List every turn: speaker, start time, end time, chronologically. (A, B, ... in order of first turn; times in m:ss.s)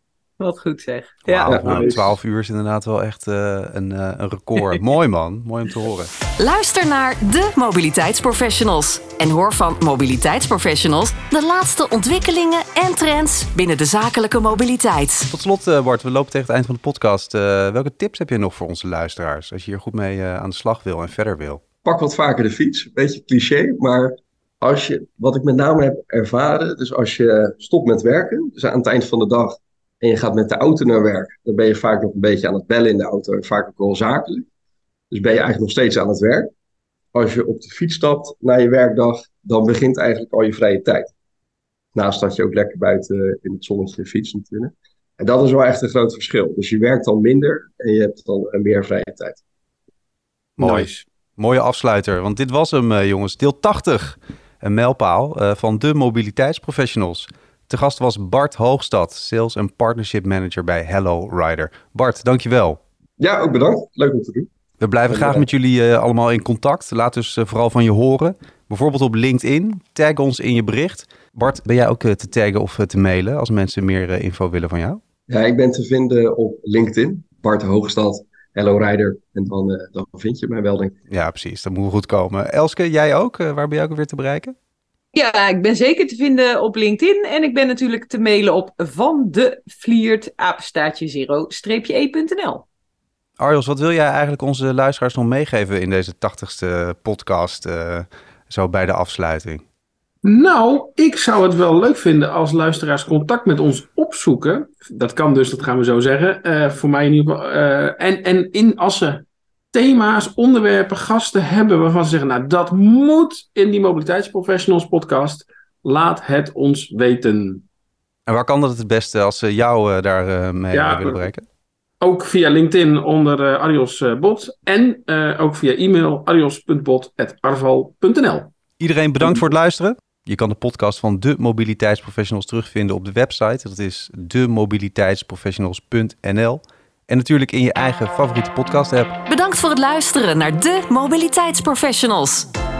0:00.4-0:02.0 A
0:01.3-0:06.1 B
0:01.4-0:02.0 C
0:06.4-0:15.3 D
0:15.3-0:21.6 B
0:21.8-0:34.5 C
0:35.1-0:36.5 C
0:37.1-0:41.1 C
0:41.9-0:49.4 C
0:50.6-0:51.0 E
0:50.6-1:02.8 B
1:03.2-1:04.5 C
1:04.8-1:15.0 B
1:05.1-1:05.5 C
1:15.3-1:20.9 C
1:21.1-1:24.5 B
1:25.1-1:32.6 A
1:33.4-1:39.6 B
1:40.2-1:57.6 E
1:58.3-2:01.4 B
2:00.7-2:01.2 E
2:02.0-2:08.5 E
2:08.8-2:19.2 B
2:19.3-2:22.5 D